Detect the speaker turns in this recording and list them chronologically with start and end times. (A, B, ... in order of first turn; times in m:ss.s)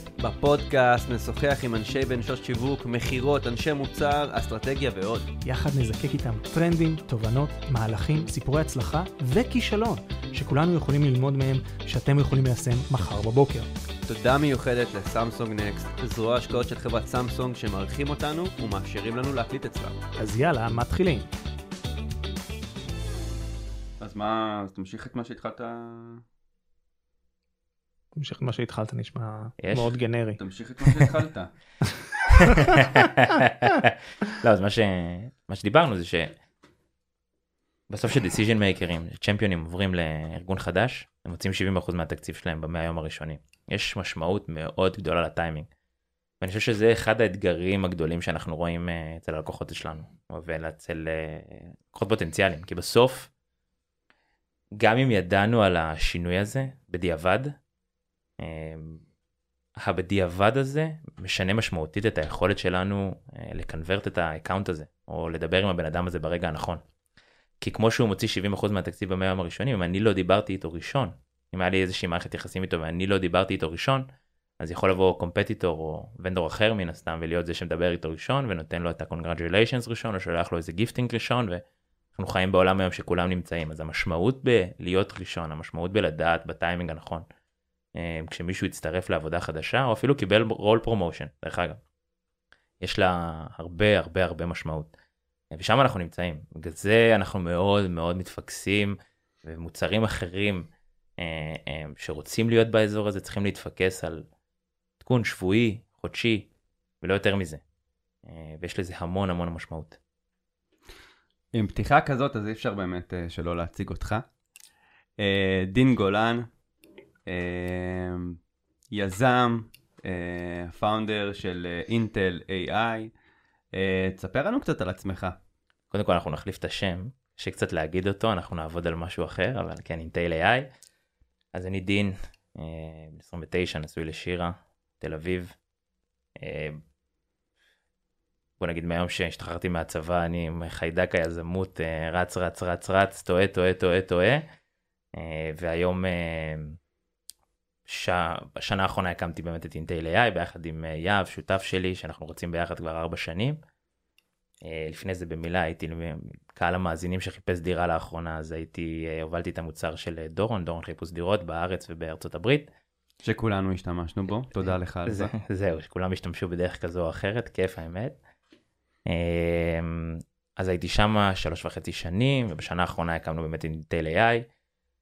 0:00.2-0:05.3 A
0:05.4-0:13.7 B
0:14.1-0:20.0 A
0:20.2-0:21.3 B
0:24.0-0:26.2 A
0:28.2-0:30.4 B
0:29.6-0:29.9 C
0:30.4-0:31.5 A
0:32.3-0:32.8 B
0:32.5-0:36.3 C
0:37.9-0:45.7 C
0:46.4-0:53.3 C
0:54.8-0:57.5 C
0:58.4-0:59.0 C
0:59.8-1:06.8 C
1:07.6-1:14.1 C
1:14.6-1:21.6 C
1:22.2-1:27.3 C
1:28.0-1:31.8 C
1:32.8-1:34.9 C
1:35.5-1:44.3 C
1:45.0-1:46.5 C
1:47.0-1:47.6 C
1:48.2-1:50.0 C
1:51.5-1:54.2 A
1:55.2-1:56.5 A
1:57.3-1:58.4 A
1:58.9-2:03.1 A
2:03.7-2:05.4 A
2:05.9-2:10.7 C
2:11.5-2:15.5 C
2:16.4-2:16.8 C
2:18.6-2:24.4 C
2:25.2-2:26.8 C
2:27.9-2:33.6 C
2:34.6-2:42.7 C
2:43.2-2:45.3 A
2:45.1-2:48.2 C
2:49.1-2:54.5 C